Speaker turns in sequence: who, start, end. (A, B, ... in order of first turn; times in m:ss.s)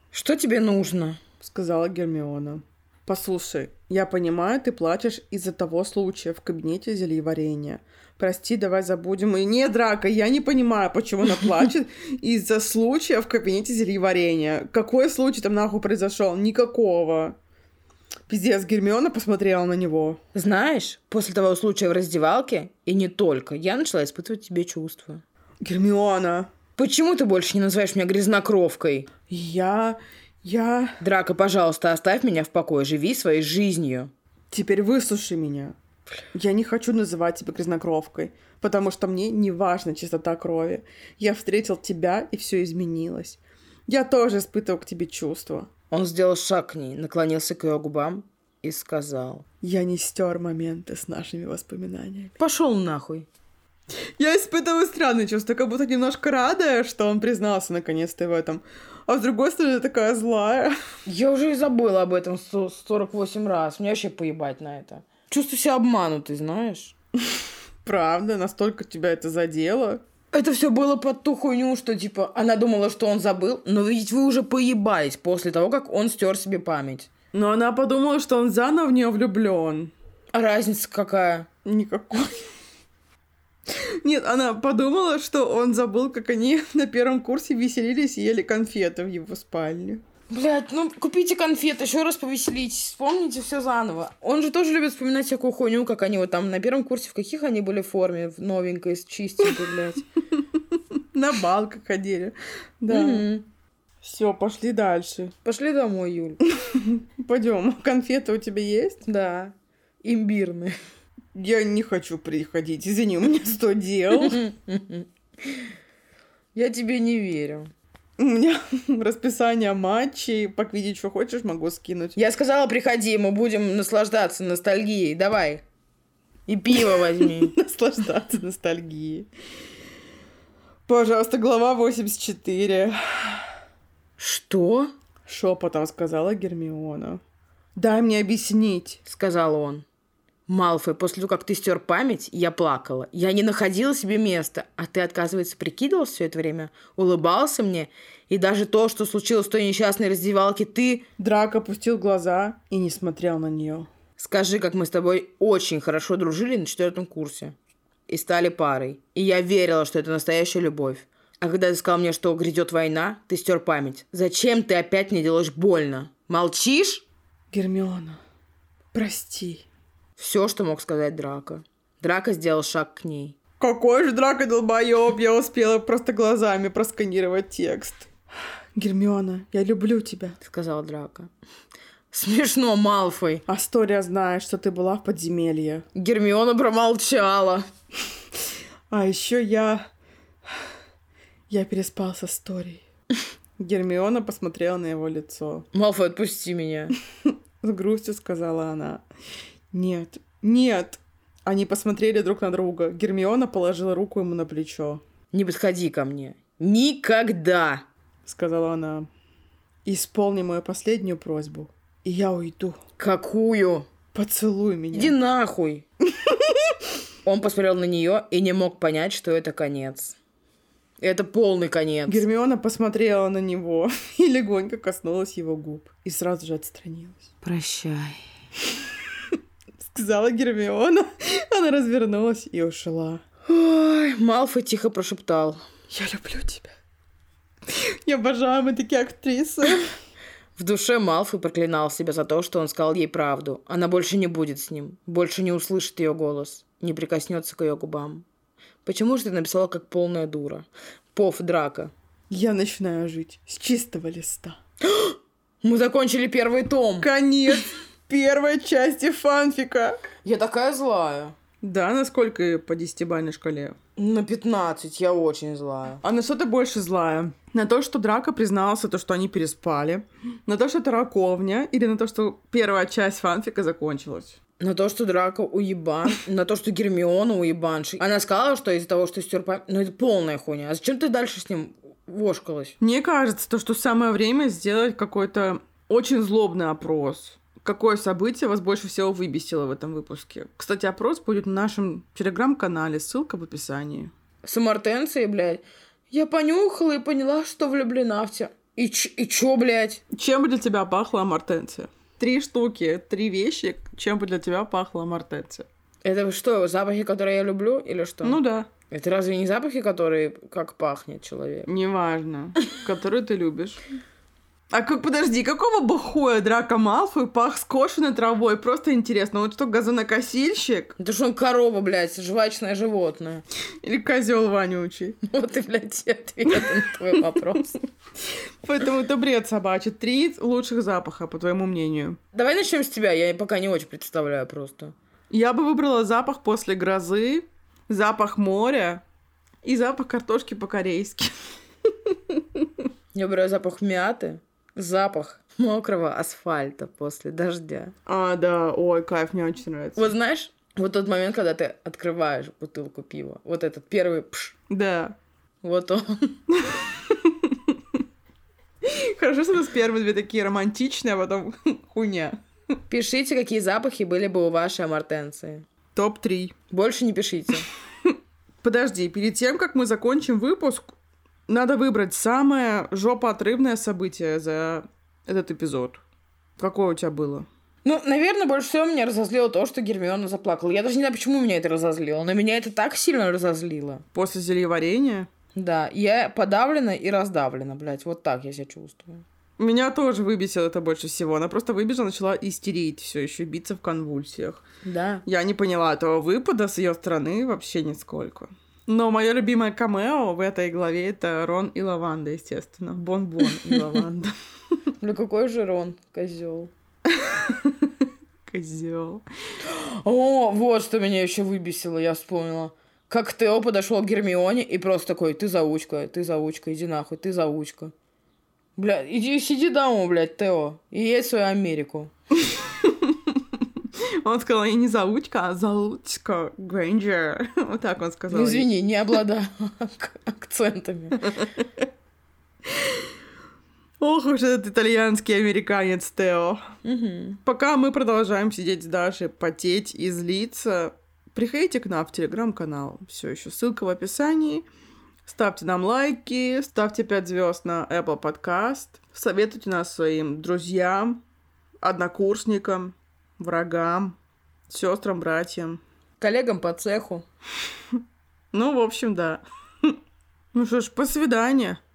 0:00.1-0:01.2 A
0:01.4-0:17.4 B
0:18.3-0:20.2 B
0:20.3-0:25.2 A
0:25.6-0:26.5 B
0:26.8-0:29.1 A
0:29.3-0:31.0 B
0:31.0-0:34.1 A
0:34.5-0:35.8 B
0:36.3-0:45.7 B
0:45.9-0:49.4 A
0:49.6-0:52.4 B
0:52.4-0:53.3 A
0:54.2-1:00.8 B
1:01.1-1:06.9 A
1:07.8-1:10.0 B
1:10.3-1:17.1 A
1:17.3-1:19.9 B
1:20.3-1:21.5 A
1:21.6-1:22.4 B
1:23.7-1:30.0 B
1:30.3-1:40.1 A
1:40.7-1:43.3 B
1:42.9-1:43.5 A
1:44.0-1:45.4 B
1:45.4-1:46.4 A
1:46.6-1:49.0 B
1:49.0-1:50.8 A
1:51.4-1:54.4 B
1:54.2-1:55.7 A
1:56.6-1:57.7 A
1:58.2-2:02.2 B
2:02.2-2:05.6 A
2:06.5-2:07.6 A
2:06.9-2:09.3 B
2:10.9-2:13.5 B
2:14.2-2:14.9 A
2:15.3-2:17.2 B
2:17.8-2:19.0 B
2:19.1-2:19.8 A
2:20.5-2:31.1 A
2:31.2-2:33.9 B
2:34.2-2:37.6 A
2:38.1-2:47.1 A
2:47.5-2:48.2 B
2:48.9-2:49.6 B
2:50.2-2:53.4 A
2:53.6-2:58.1 B
2:58.8-3:00.4 B
3:00.4-3:01.3 A
3:02.1-3:03.4 A
3:03.5-3:05.9 B
3:06.0-3:07.7 A
3:08.9-3:09.9 B
3:11.5-3:12.8 B
3:13.6-3:15.7 B
3:15.7-3:16.9 A
3:17.6-3:19.0 B
3:19.7-3:25.0 B
3:25.3-3:27.8 A
3:28.2-3:29.1 B
3:29.8-3:32.8 B
3:33.0-3:33.9 A
3:34.1-3:35.2 B
3:34.9-3:35.8 A
3:36.2-3:36.7 B
3:37.2-3:40.2 A
3:41.0-3:42.2 A
3:42.1-3:47.2 B
3:47.4-3:48.2 A
3:49.8-3:53.2 B
3:53.5-3:55.6 A
3:55.9-3:56.7 B
3:57.7-3:59.9 B
4:00.6-4:08.2 A
4:08.8-4:11.9 A
4:12.3-4:14.6 B
4:14.8-4:17.1 A
4:17.0-4:20.0 B
4:20.2-4:21.4 A
4:21.6-4:23.8 B
4:24.0-4:26.0 A
4:26.0-4:34.4 B
4:34.6-4:42.8 A
4:42.8-4:54.1 B
4:54.4-5:00.0 A
5:00.1-5:05.7 B
5:06.0-5:11.7 A
5:08.2-5:08.7 B
5:11.7-5:13.8 B
5:14.7-5:21.0 B
5:21.0-5:23.4 A
5:23.8-5:25.2 B
5:25.2-5:27.8 A
5:28.6-5:32.2 B
5:32.3-5:34.9 A
5:35.3-5:39.0 B
5:39.6-5:41.3 B
5:41.9-5:42.7 B
5:43.1-5:47.9 A
5:48.1-5:50.1 B
5:50.0-5:54.6 A
5:54.7-5:55.2 B
5:55.6-5:56.4 A
5:56.5-5:57.8 B
5:58.8-6:02.4 B
6:02.9-6:05.6 A
6:06.0-6:06.6 B
6:06.7-6:07.7 A
6:08.6-6:11.0 B
6:11.5-6:16.0 B
6:16.6-6:17.5 B
6:17.8-6:24.0 A
6:24.1-6:25.3 B
6:25.6-6:29.2 A
6:29.6-6:34.6 B
6:34.8-6:35.2 A
6:35.3-6:44.3 B
6:43.7-6:44.0 A
6:45.0-6:46.7 A
6:47.1-6:47.9 B
6:48.5-6:49.2 B
6:49.6-6:57.9 A
6:58.8-7:02.1 A
7:02.5-7:03.6 B
7:04.2-7:08.7 B
7:08.3-7:11.3 A
7:11.3-7:11.7 B
7:14.0-7:16.8 B
7:16.8-7:17.4 A
7:17.4-7:24.7 B
7:25.2-7:31.2 B
7:31.8-7:34.2 B
7:34.7-7:35.8 B
7:36.2-7:37.2 A
7:38.5-7:40.0 B
7:40.5-7:41.8 B